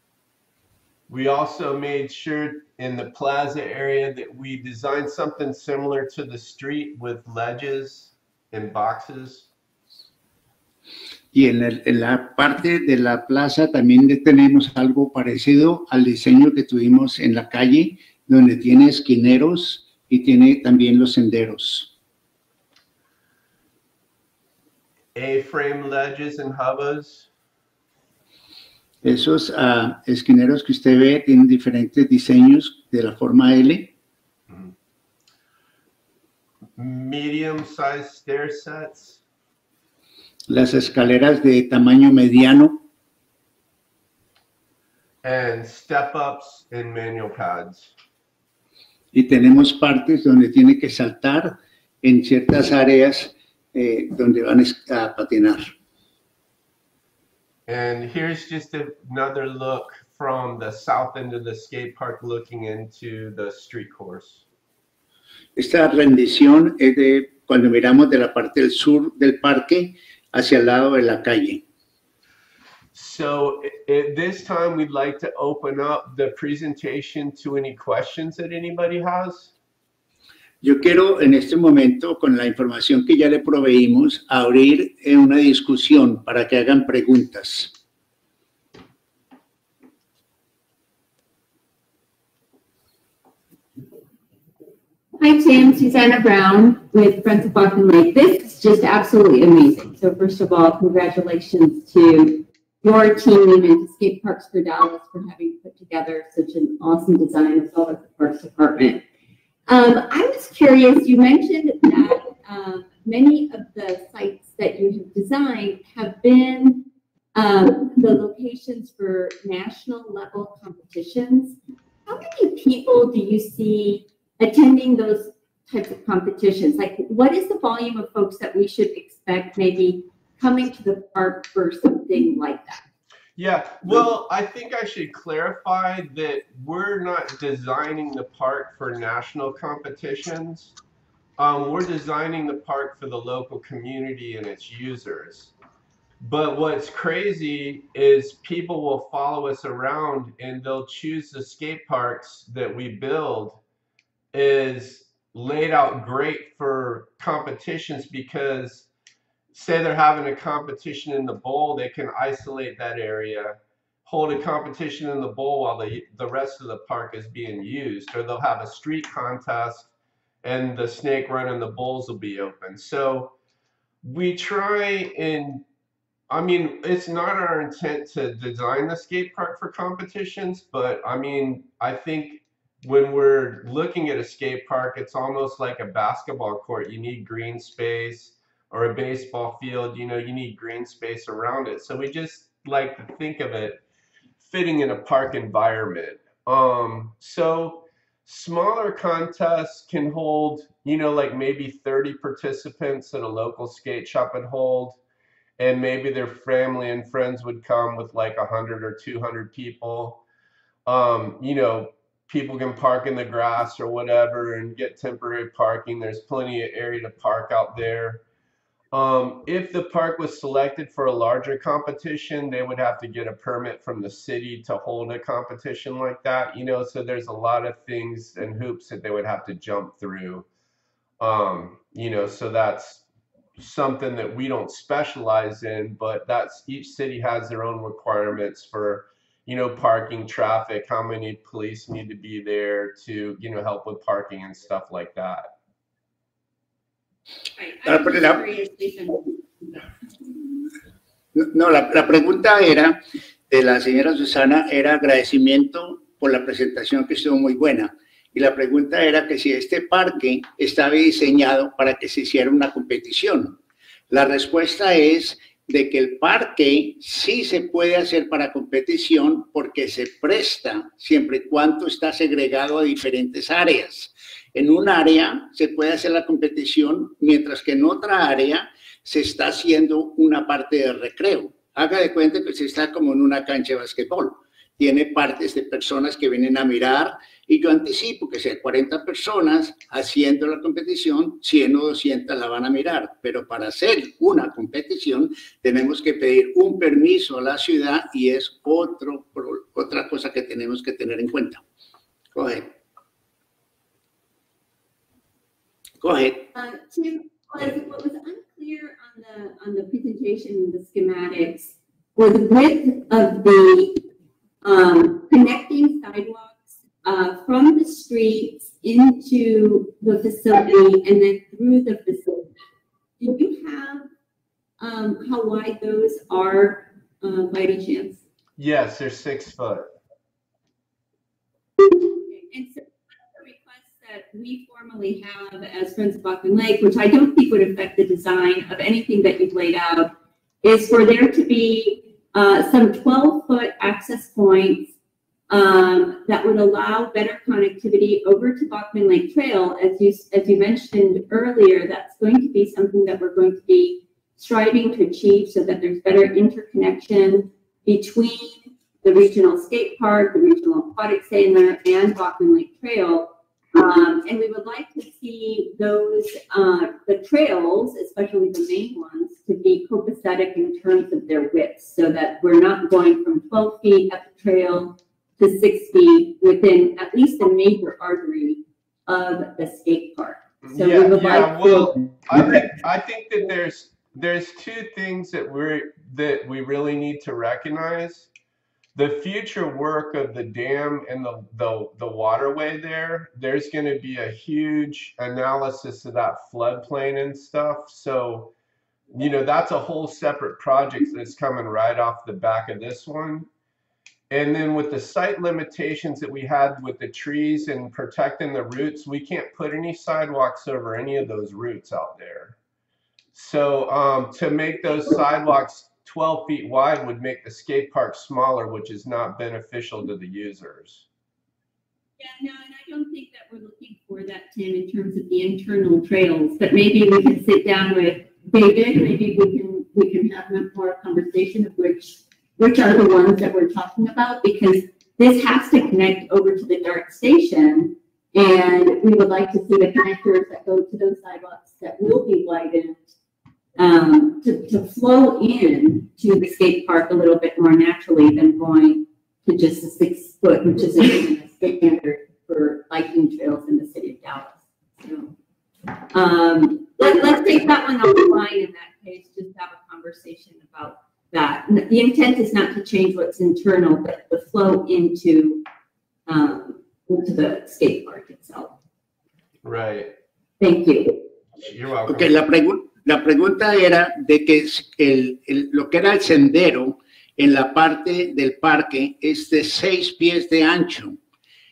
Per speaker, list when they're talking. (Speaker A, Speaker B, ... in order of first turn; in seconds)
Speaker A: 1.1-9.5, 25.1-27.3, 36.8-39.2, 45.2-47.9, 57.7-64.4, 72.9-79.5, 133.3-140.7, 141.4-145.5, 146.2-153.6, 154.3-158.9, 159.5-173.3, 174.0-175.6, 176.3-193.8, 194.4-205.0, 205.6-210.2, 210.8-218.2, 218.9-230.4, 231.2-233.0, 233.6-245.5, 328.6-329.9, 380.6-388.3, 388.9-398.5, 399.1-403.5, 404.3-412.6, 413.3-421.1, 469.6-470.1, 471.6-472.3
Speaker B: 11.3-21.9, 29.0-33.9, 40.5-42.8, 49.1-55.7, 65.5-71.6, 80.6-87.7, 247.9-248.4, 251.3-263.6, 264.1-301.6, 302.3-302.7, 306.0-306.5, 472.1-481.2
Speaker C: 95.2-109.0, 109.7-116.8, 117.3-121.5, 122.1-132.8, 247.6-249.7, 306.5-314.0, 314.6-322.5, 323.2-324.1, 324.8-328.2, 332.0-340.1, 340.6-344.9, 345.5-382.0, 422.2-443.1, 443.8-455.3, 456.1-465.6, 466.3-468.7, 470.6-471.2